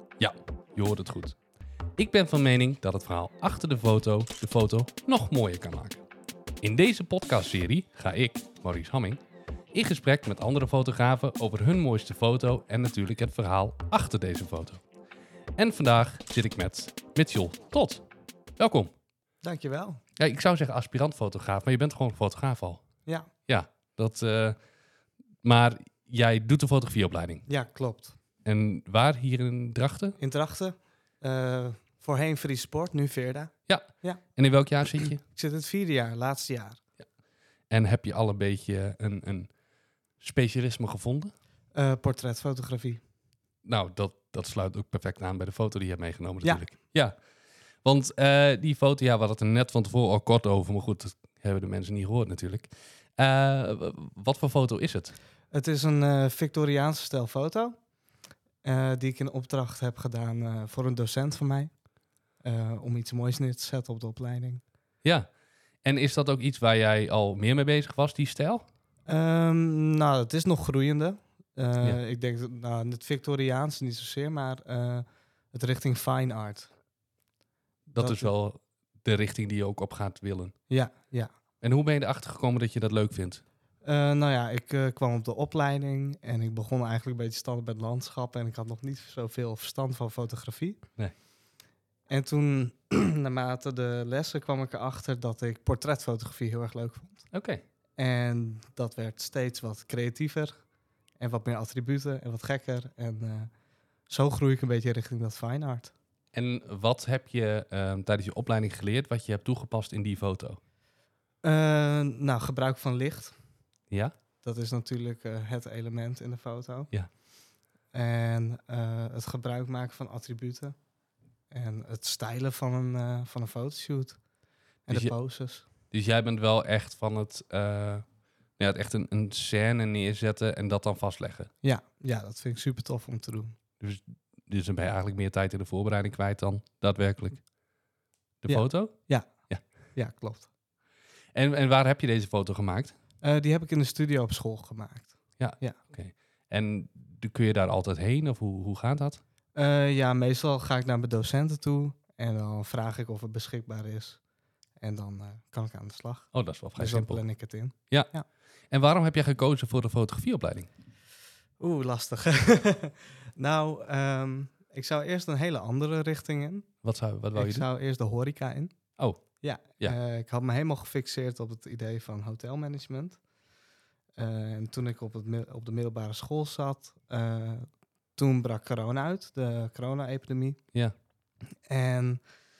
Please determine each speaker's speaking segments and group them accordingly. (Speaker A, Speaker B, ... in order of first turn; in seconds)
Speaker A: 0.2-1.4, 2.0-6.0, 6.6-9.2, 9.7-14.8, 15.6-18.0, 18.6-18.9, 20.2-22.8, 23.5-24.6, 25.4-27.4, 28.4-30.2, 33.7-35.2, 37.7-39.5, 40.2-41.3, 43.6-47.1, 47.8-55.1, 65.0-65.3, 65.8-68.6, 77.9-80.5, 81.6-83.4, 97.3-97.6, 106.3-110.6, 124.9-125.1, 125.9-128.0, 128.6-131.5, 133.8-137.4, 138.4-139.0, 141.3-142.9, 145.4-149.2, 156.3-157.2, 158.7-160.7, 166.8-167.6
Speaker B: 19.4-20.0, 27.5-28.1, 30.2-34.2, 35.2-36.8, 41.7-43.0, 55.5-57.8, 58.6-61.7, 62.4-64.6, 69.1-76.7, 77.9-78.3, 80.7-81.3, 83.8-90.8, 92.1-97.3, 98.0-100.6, 101.2-103.5, 104.1-105.9, 111.4-113.3, 114.4-116.9, 117.9-120.8, 121.5-124.2, 124.8-125.7, 131.6-133.6, 138.5-139.3, 139.9-140.5, 143.2-145.8, 149.5-154.2, 154.8-158.2, 161.6-166.7, 167.3-168.7, 169.4-173.2, 174.2-180.6, 181.7-182.2